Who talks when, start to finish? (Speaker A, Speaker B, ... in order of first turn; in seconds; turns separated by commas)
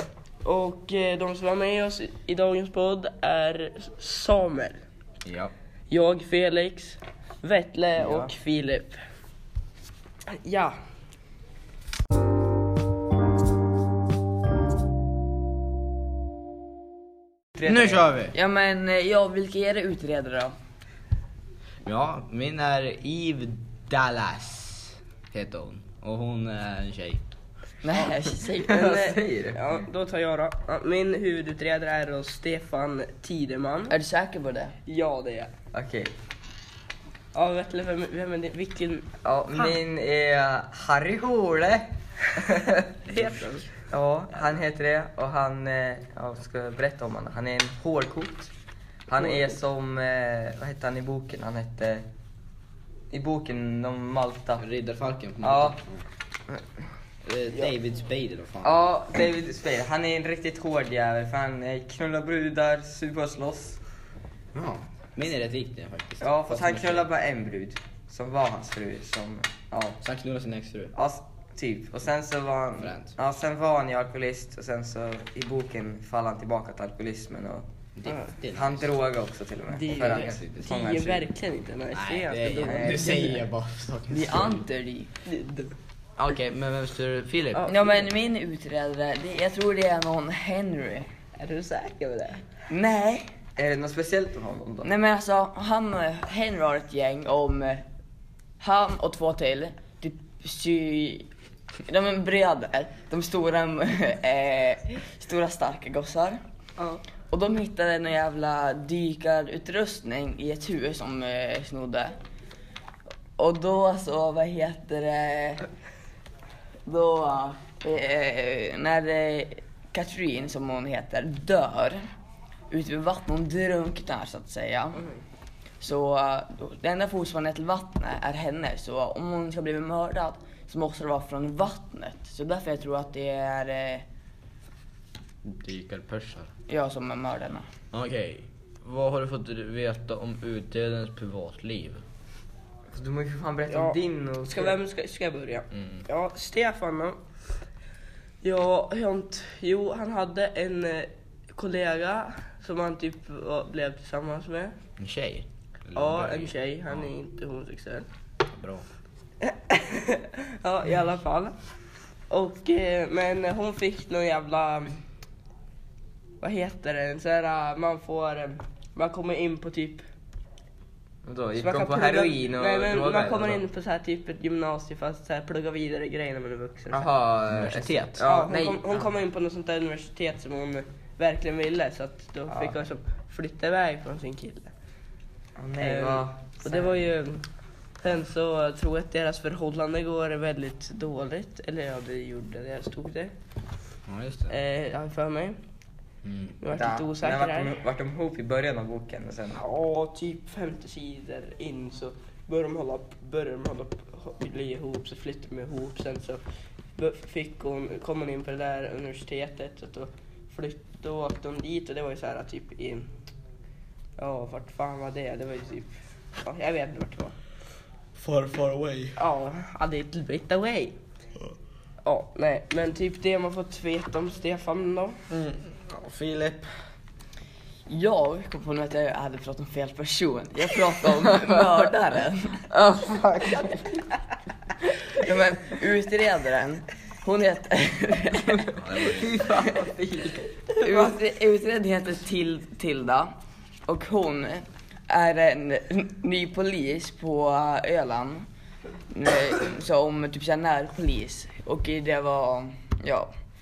Speaker A: 0.4-4.8, Speaker B: 5.2-5.5, Speaker A: 5.9-9.0, Speaker A: 10.3-10.8, Speaker C: 17.6-18.1, Speaker B: 17.6-18.3, Speaker D: 18.3-20.5, Speaker B: 21.8-27.4, Speaker D: 27.8-28.8, Speaker C: 28.6-29.6, Speaker A: 28.7-33.9, Speaker D: 33.9-34.8, Speaker A: 34.9-35.5, Speaker C: 35.7-36.1, Speaker A: 37.3-39.7, Speaker C: 39.2-42.9, Speaker A: 43.1-43.7, Speaker C: 43.9-48.5, Speaker C: 49.1-52.1, Speaker C: 53.1-54.6, Speaker B: 54.6-56.0, Speaker C: 55.4-55.8, Speaker B: 57.2-58.9, Speaker C: 58.6-63.8, Speaker B: 64.5-67.1, Speaker C: 66.2-70.0, Speaker B: 70.0-70.9, Speaker C: 70.9-77.7, Speaker B: 72.8-73.1, Speaker B: 78.0-78.9, Speaker C: 78.5-81.3, Speaker A: 79.7-83.3, Speaker B: 80.0-80.7, Speaker B: 81.9-84.7, Speaker C: 82.6-83.0, Speaker D: 83.0-83.4, Speaker D: 84.1-85.1, Speaker A: 85.2-85.7, Speaker B: 86.2-87.7, Speaker A: 87.5-87.9, Speaker D: 87.7-91.1, Speaker A: 91.4-92.4, Speaker D: 92.7-93.3, Speaker C: 93.6-94.9, Speaker D: 94.8-97.8, Speaker D: 98.6-101.3, Speaker D: 101.8-106.4, Speaker D: 107.3-112.1, Speaker D: 113.4-115.6, Speaker D: 116.8-122.0, Speaker D: 122.7-125.0, Speaker D: 125.8-134.0, Speaker B: 135.4-136.5, Speaker D: 136.7-137.7, Speaker B: 137.9-142.0, Speaker C: 142.9-144.8, Speaker A: 143.7-147.2, Speaker B: 145.7-146.1, Speaker A: 148.4-154.7, Speaker B: 155.0-157.1, Speaker A: 155.9-158.1, Speaker B: 158.4-158.8, Speaker A: 159.5-161.6, Speaker A: 162.3-165.0, Speaker A: 166.4-170.0, Speaker C: 171.2-173.6, Speaker A: 171.6-177.1, Speaker C: 176.9-179.1, Speaker B: 177.5-178.2, Speaker A: 178.2-184.7, Speaker C: 182.5-182.7, Speaker C: 185.6-187.0, Speaker A: 185.8-187.5, Speaker A: 188.0-193.3, Speaker B: 194.1-194.6, Speaker A: 194.5-195.6, Speaker B: 196.2-196.6, Speaker A: 196.6-197.7, Speaker C: 196.7-199.6, Speaker A: 199.6-206.4, Speaker A: 206.9-213.1, Speaker A: 214.2-217.3, Speaker B: 218.2-219.2, Speaker A: 219.2-221.0, Speaker A: 222.0-225.2, Speaker B: 225.3-226.8, Speaker D: 227.9-232.7, Speaker C: 232.8-233.8, Speaker D: 233.5-233.7, Speaker D: 234.8-238.8, Speaker B: 238.8-239.4, Speaker C: 239.0-241.1, Speaker D: 240.8-243.3, Speaker D: 243.8-248.4, Speaker D: 249.1-253.3